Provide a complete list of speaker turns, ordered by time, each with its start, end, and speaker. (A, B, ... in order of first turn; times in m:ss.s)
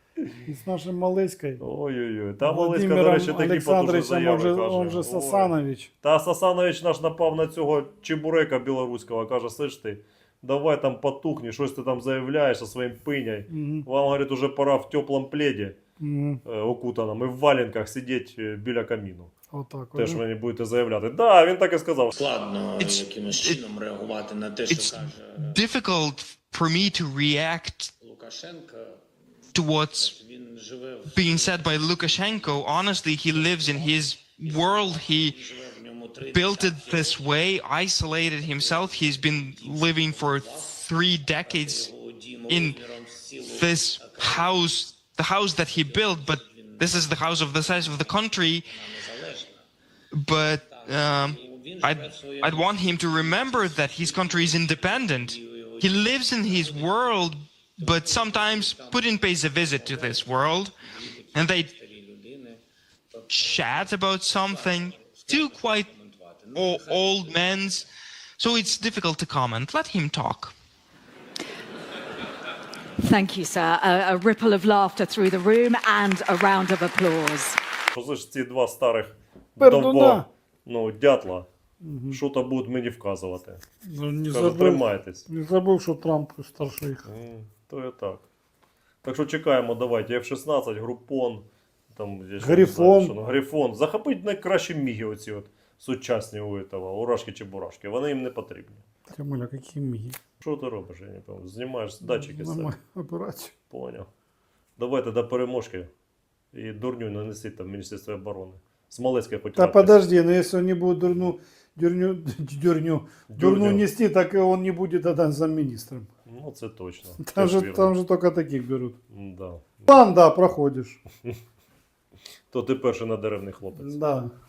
0:00.4-0:01.6 A
0:01.6-0:15.8 B
0:02.4-0:05.9 A
0:13.5-0:13.9 A
0:16.0-0:16.4 A
0:16.4-0:19.3 B
0:19.5-0:20.2 A
0:19.9-0:22.2 B
0:22.2-0:25.6 C
0:22.8-0:23.6 D
0:24.7-0:27.9 D
0:28.0-0:29.0 C
0:29.5-0:30.1 D
0:29.9-0:37.4 C
0:31.1-0:35.3 D
0:36.3-0:41.9 D
0:38.3-0:49.6 C
0:42.5-0:42.8 D
0:43.5-0:48.6 D
0:50.1-1:00.7 D
0:50.6-0:57.2 C
0:57.8-1:02.6 C
1:01.3-1:01.7 D
1:03.1-1:07.8 C
1:03.3-1:05.9 D
1:06.5-1:07.8 D
1:08.4-1:10.5 D
1:13.0-1:17.6 E
1:17.9-1:21.5 B
1:19.6-1:20.2 A
1:21.8-1:22.2 A
1:22.1-1:23.6 B
1:23.9-1:27.0 A
1:24.3-1:25.3 B
1:27.0-1:28.2 B
1:29.0-1:38.8 B
1:32.4-1:33.1 A
1:39.1-1:40.2 A
1:40.4-1:42.7 B
1:42.0-1:43.5 A
1:43.7-1:44.1 B
1:44.8-1:45.9 B
1:46.5-1:50.0 B
1:49.5-1:56.1 A
1:53.3-1:53.9 B
1:56.2-1:57.9 B
1:57.2-1:59.0 A
1:59.1-1:59.9 B
1:59.9-2:01.0 A
2:02.5-2:04.0 B
2:03.8-2:04.3 A